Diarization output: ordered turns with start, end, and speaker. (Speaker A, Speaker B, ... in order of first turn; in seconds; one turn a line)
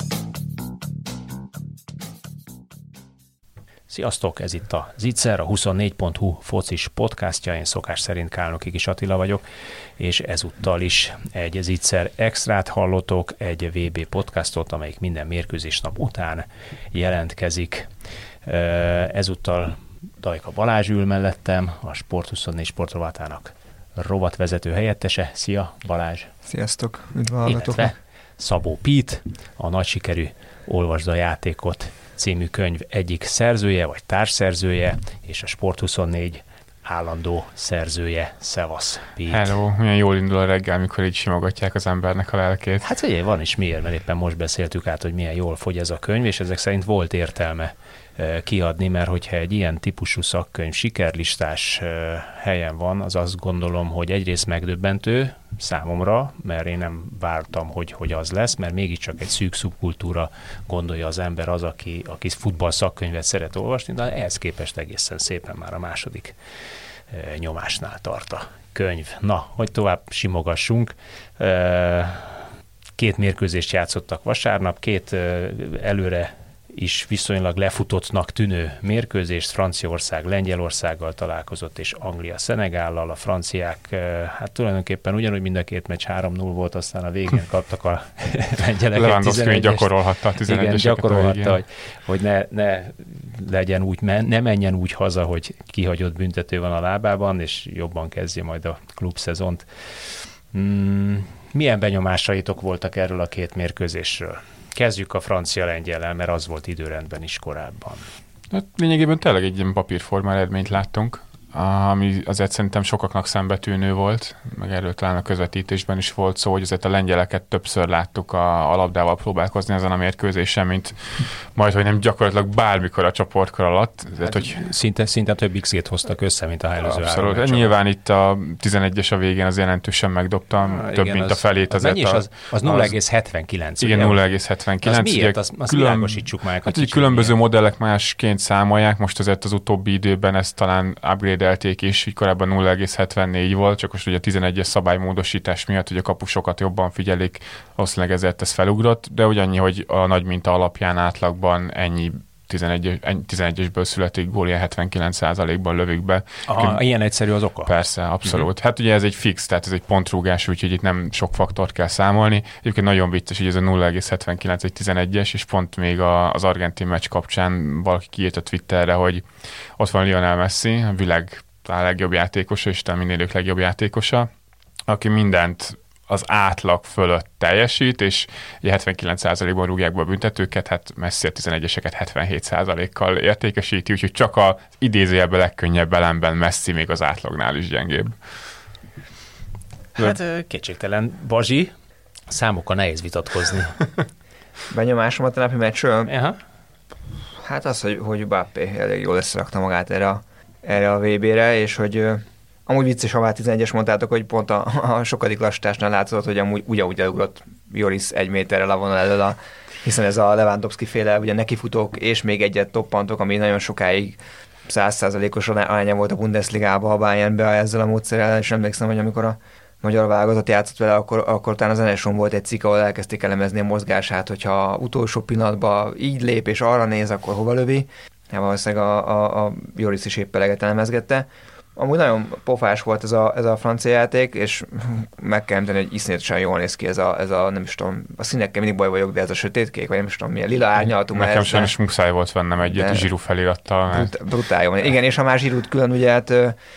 Speaker A: 3.9-9.4
Speaker A: 10.0-17.9
Speaker A: 18.4-26.3
Speaker B: 26.5-27.9
Speaker A: 27.4-39.5
Speaker C: 39.3-42.8
Speaker A: 42.8-66.3
Speaker A: 67.1-72.4
Speaker A: 73.0-108.1
Speaker C: 88.9-91.6
Speaker C: 108.5-124.6
Speaker A: 124.2-127.7
Speaker C: 126.8-132.9
Speaker A: 130.6-134.2
Speaker C: 133.8-156.8
Speaker A: 134.8-137.3
Speaker A: 156.5-157.7
Speaker C: 157.6-169.2
Speaker C: 169.8-174.3
Speaker C: 174.9-188.2
Speaker A: 189.9-191.7
Speaker A: 192.3-193.9
Speaker B: 194.7-196.1
Speaker A: 196.1-196.4
Speaker B: 197.3-241.7
Speaker C: 241.1-244.2
Speaker B: 242.6-243.1
Speaker B: 243.9-246.6